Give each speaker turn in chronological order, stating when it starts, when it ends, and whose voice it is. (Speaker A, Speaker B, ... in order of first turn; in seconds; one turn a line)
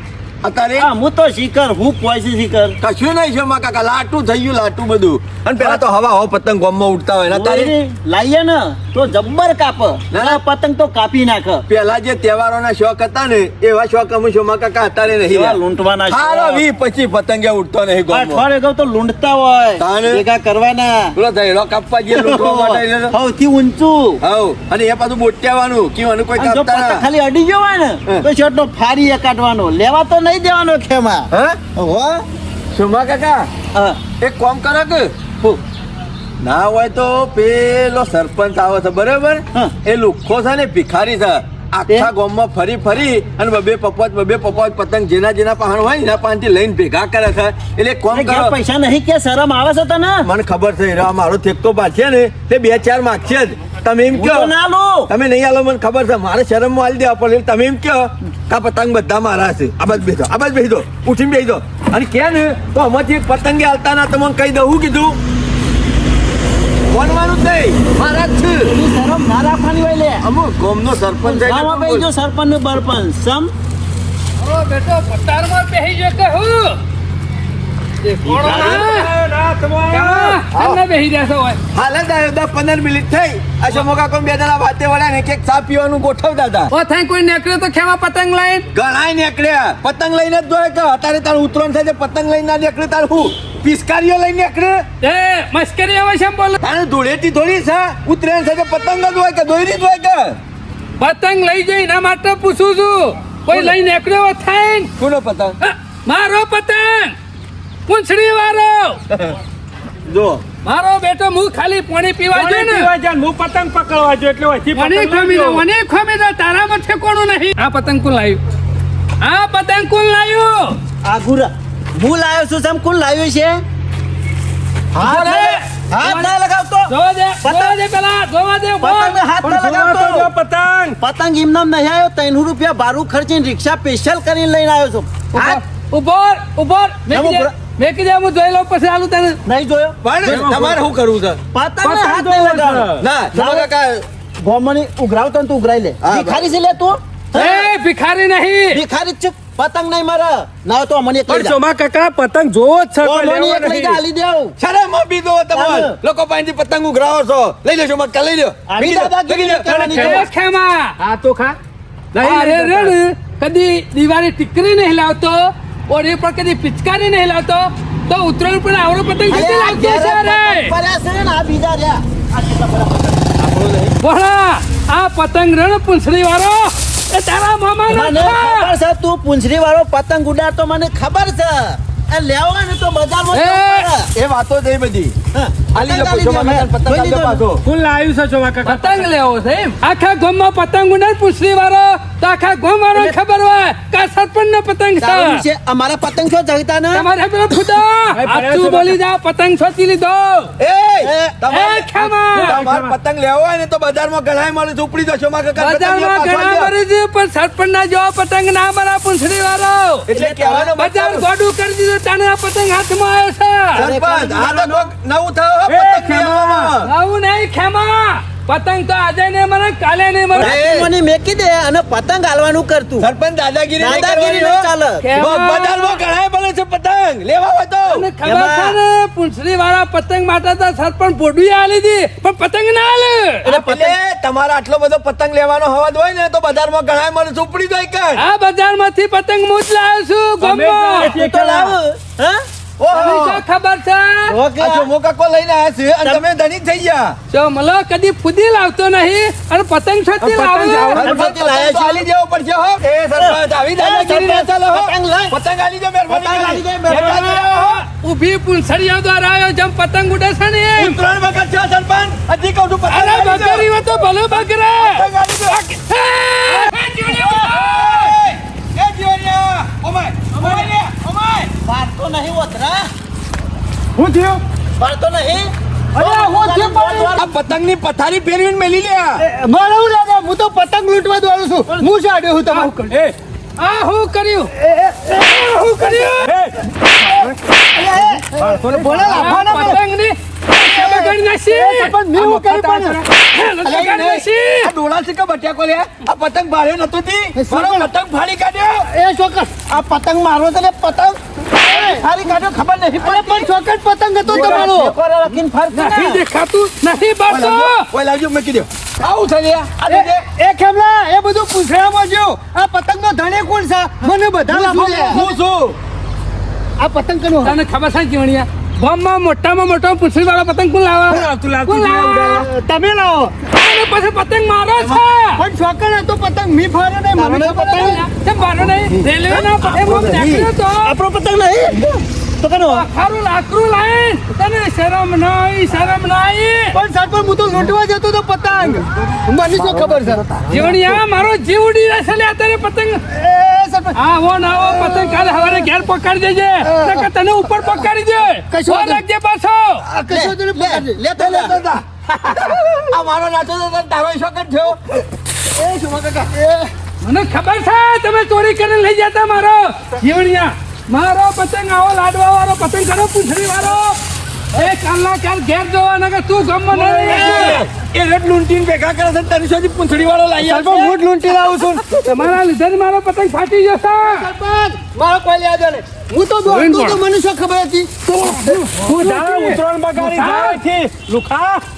Speaker A: 0.4-0.9
Speaker B: 0.8-2.8
Speaker A: 2.8-7.7
Speaker B: 5.6-5.8
Speaker B: 7.3-11.6
Speaker A: 10.1-10.4
Speaker A: 11.7-15.6
Speaker B: 15.2-16.6
Speaker A: 16.1-18.4
Speaker B: 18.1-21.2
Speaker A: 19.8-20.2
Speaker A: 21.1-23.1
Speaker B: 22.1-24.2
Speaker A: 24.2-27.1
Speaker B: 26.4-32.2
Speaker A: 31.3-31.6
Speaker A: 32.7-33.5
Speaker B: 33.8-34.0
Speaker A: 34.2-35.1
Speaker A: 36.4-48.5
Speaker B: 48.1-50.3
Speaker A: 50.2-54.5
Speaker B: 54.1-55.1
Speaker A: 55.1-65.2
Speaker A: 66.9-68.7
Speaker B: 68.7-70.3
Speaker A: 70.2-72.1
Speaker B: 71.2-73.5
Speaker C: 74.4-76.8
Speaker C: 78.1-79.1
Speaker D: 78.2-80.4
Speaker B: 78.4-78.8
Speaker C: 79.9-81.6
Speaker A: 80.5-80.8
Speaker A: 81.7-86.7
Speaker C: 86.7-88.7
Speaker A: 88.7-94.8
Speaker C: 95.0-96.6
Speaker A: 96.6-100.4
Speaker C: 101.0-104.9
Speaker A: 105.0-105.6
Speaker C: 105.6-107.2
Speaker C: 107.9-109.0
Speaker A: 110.1-110.4
Speaker C: 110.6-112.9
Speaker D: 112.3-115.6
Speaker C: 114.7-118.4
Speaker C: 119.2-120.8
Speaker B: 121.0-123.6
Speaker B: 124.9-127.8
Speaker C: 125.0-126.3
Speaker C: 126.9-129.2
Speaker B: 128.8-130.3
Speaker D: 129.4-131.0
Speaker B: 131.0-135.6
Speaker C: 135.3-139.4
Speaker B: 137.1-137.5
Speaker B: 139.5-140.0
Speaker A: 140.0-141.4
Speaker D: 140.2-140.8
Speaker B: 141.5-143.7
Speaker D: 141.8-143.0
Speaker A: 143.0-144.1
Speaker B: 144.4-147.7
Speaker A: 146.0-146.5
Speaker C: 147.3-148.8
Speaker B: 148.7-151.6
Speaker D: 151.3-154.0
Speaker B: 153.0-154.6
Speaker A: 154.6-159.8
Speaker B: 155.5-156.0
Speaker B: 158.7-160.3
Speaker D: 159.7-160.3
Speaker C: 159.9-160.9
Speaker D: 161.0-161.6
Speaker D: 162.1-163.0
Speaker C: 162.2-170.7
Speaker B: 169.3-173.9
Speaker C: 174.0-178.7
Speaker B: 177.9-184.1
Speaker C: 183.3-183.9
Speaker A: 184.2-185.2
Speaker B: 185.3-187.4
Speaker A: 185.7-187.6
Speaker D: 187.6-189.1
Speaker C: 188.7-195.4
Speaker B: 195.0-197.1
Speaker C: 196.9-200.5
Speaker D: 198.2-199.0
Speaker A: 200.6-206.7
Speaker B: 201.0-201.4
Speaker C: 201.5-202.6
Speaker D: 202.3-202.9
Speaker C: 205.6-210.1
Speaker A: 210.1-211.2
Speaker B: 210.1-210.7
Speaker C: 210.8-213.8
Speaker A: 213.8-216.9
Speaker B: 213.8-214.9
Speaker D: 215.7-216.4
Speaker C: 216.8-220.6
Speaker A: 220.3-220.9
Speaker B: 220.4-223.1
Speaker A: 223.0-228.1
Speaker B: 223.8-225.1
Speaker C: 225.0-226.0
Speaker C: 227.9-233.5
Speaker B: 228.2-228.8
Speaker A: 233.4-238.2
Speaker B: 233.5-234.0
Speaker C: 238.2-241.2
Speaker D: 240.4-241.8
Speaker B: 241.0-242.4
Speaker A: 242.8-243.4
Speaker C: 242.9-244.3
Speaker B: 243.0-243.2
Speaker B: 244.3-244.9
Speaker A: 244.6-247.2
Speaker C: 247.3-251.0
Speaker D: 250.2-251.2
Speaker B: 250.9-252.1
Speaker A: 250.9-257.8
Speaker B: 253.1-255.3
Speaker B: 256.1-257.4
Speaker C: 256.9-261.0
Speaker A: 260.8-265.6
Speaker C: 262.9-268.1
Speaker A: 266.7-271.5
Speaker B: 270.4-270.6
Speaker B: 271.6-272.9
Speaker E: 274.0-274.4
Speaker B: 274.8-277.3
Speaker E: 276.0-277.1
Speaker A: 277.1-279.2
Speaker E: 279.2-282.8
Speaker C: 282.5-282.9
Speaker D: 282.9-283.2
Speaker C: 283.6-284.5
Speaker E: 284.6-285.2
Speaker C: 285.1-286.3
Speaker D: 286.2-287.4
Speaker E: 287.2-289.8
Speaker D: 288.2-289.4
Speaker C: 289.1-291.9
Speaker E: 290.6-293.0
Speaker D: 292.1-293.0
Speaker C: 293.1-294.7
Speaker A: 293.6-298.9
Speaker E: 297.4-297.9
Speaker E: 298.9-299.6
Speaker B: 299.6-303.6
Speaker E: 301.6-302.1
Speaker E: 303.0-304.9
Speaker B: 304.2-306.2
Speaker C: 304.3-304.6
Speaker C: 305.7-307.9
Speaker A: 307.3-310.2
Speaker E: 309.9-315.2
Speaker A: 314.5-315.8
Speaker E: 316.8-317.6
Speaker C: 317.4-322.4
Speaker D: 321.1-322.5
Speaker E: 322.3-323.4
Speaker C: 323.5-325.4
Speaker E: 325.4-328.0
Speaker C: 327.1-330.9
Speaker B: 327.3-327.6
Speaker B: 329.3-332.9
Speaker C: 332.6-336.8
Speaker E: 336.7-340.2
Speaker A: 339.7-340.2
Speaker C: 340.5-343.0
Speaker E: 343.1-344.0
Speaker C: 343.9-349.9
Speaker E: 346.6-347.1
Speaker E: 348.5-349.0
Speaker E: 349.9-351.1
Speaker B: 350.1-351.6
Speaker A: 351.2-356.7
Speaker C: 357.0-364.0
Speaker C: 364.5-367.6
Speaker A: 366.7-371.9
Speaker E: 370.4-371.7
Speaker C: 372.0-374.3
Speaker E: 374.1-378.7
Speaker C: 376.5-377.0
Speaker C: 378.5-380.6
Speaker D: 378.8-381.6